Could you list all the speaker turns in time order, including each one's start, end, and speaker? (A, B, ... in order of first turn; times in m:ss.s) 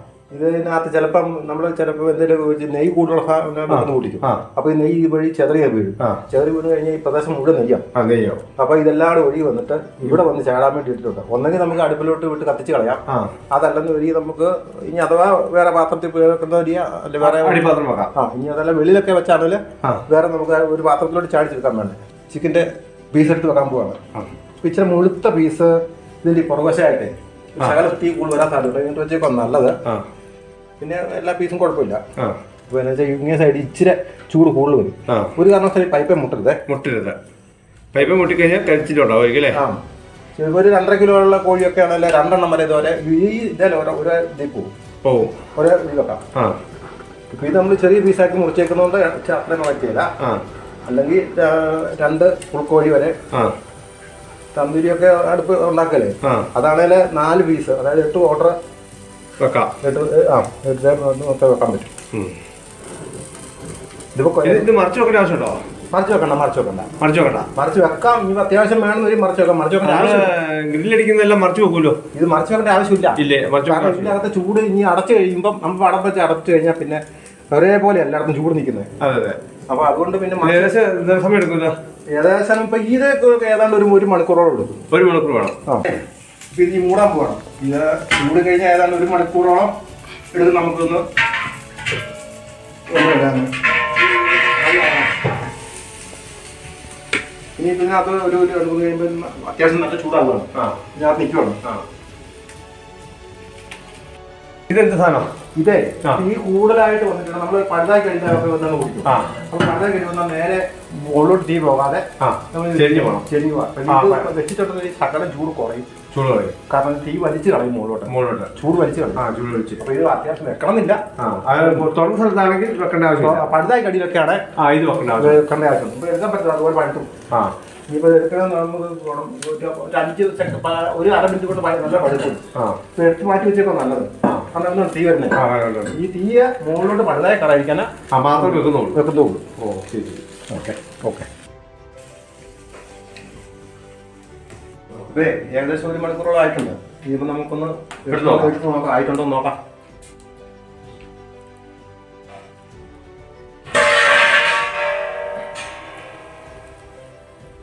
0:00.3-0:07.8 A
0:03.7-0:04.4 B
0:07.9-0:08.4 B
0:08.6-0:24.0 A
0:13.1-0:13.3 B
0:17.2-0:18.1 B
0:24.6-0:25.7 A
0:26.2-0:29.7 A
0:30.8-0:32.0 A
0:32.7-0:36.6 A
0:35.1-0:35.3 B
0:36.7-0:37.2 B
0:37.9-0:39.6 B
0:39.5-0:39.8 A
0:40.4-0:44.7 A
0:45.0-0:45.4 B
0:45.5-0:46.2 A
0:47.3-0:50.1 A
0:50.2-0:50.4 B
0:50.8-0:53.1 A
0:54.5-0:58.5 A
0:56.2-0:56.5 B
0:59.4-0:59.7 B
0:59.8-1:01.9 A
1:04.1-1:04.7 A
1:04.4-1:05.6 B
1:05.9-1:06.9 A
1:07.0-1:07.5 B
1:07.5-1:10.2 A
1:09.8-1:12.0 B
1:12.1-1:18.9 A
1:13.2-1:14.1 B
1:19.0-1:19.4 B
1:19.7-1:20.7 A
1:20.4-1:21.8 B
1:22.1-1:24.8 A
1:24.9-1:25.5 B
1:25.6-1:26.0 A
1:26.5-1:29.7 A
1:30.3-1:31.0 A
1:32.9-1:35.3 A
1:37.6-1:41.6 A
1:44.7-1:45.3 B
1:45.5-1:55.9 A
1:49.0-1:49.3 B
1:52.2-1:53.2 B
1:53.9-1:54.3 B
1:56.1-1:56.6 B
1:56.7-1:59.2 A
1:58.1-1:58.5 B
1:59.2-1:59.8 B
1:59.8-2:01.8 A
2:01.2-2:03.5 B
2:03.2-2:04.4 A
2:04.6-2:05.4 B
2:05.2-2:07.1 A
2:07.9-2:12.4 A
2:12.5-2:12.8 B
2:13.0-2:19.5 A
2:15.3-2:15.9 B
2:18.1-2:19.0 B
2:19.6-2:20.2 B
2:20.5-2:21.3 A
2:25.0-2:29.6 A
2:28.1-2:28.5 B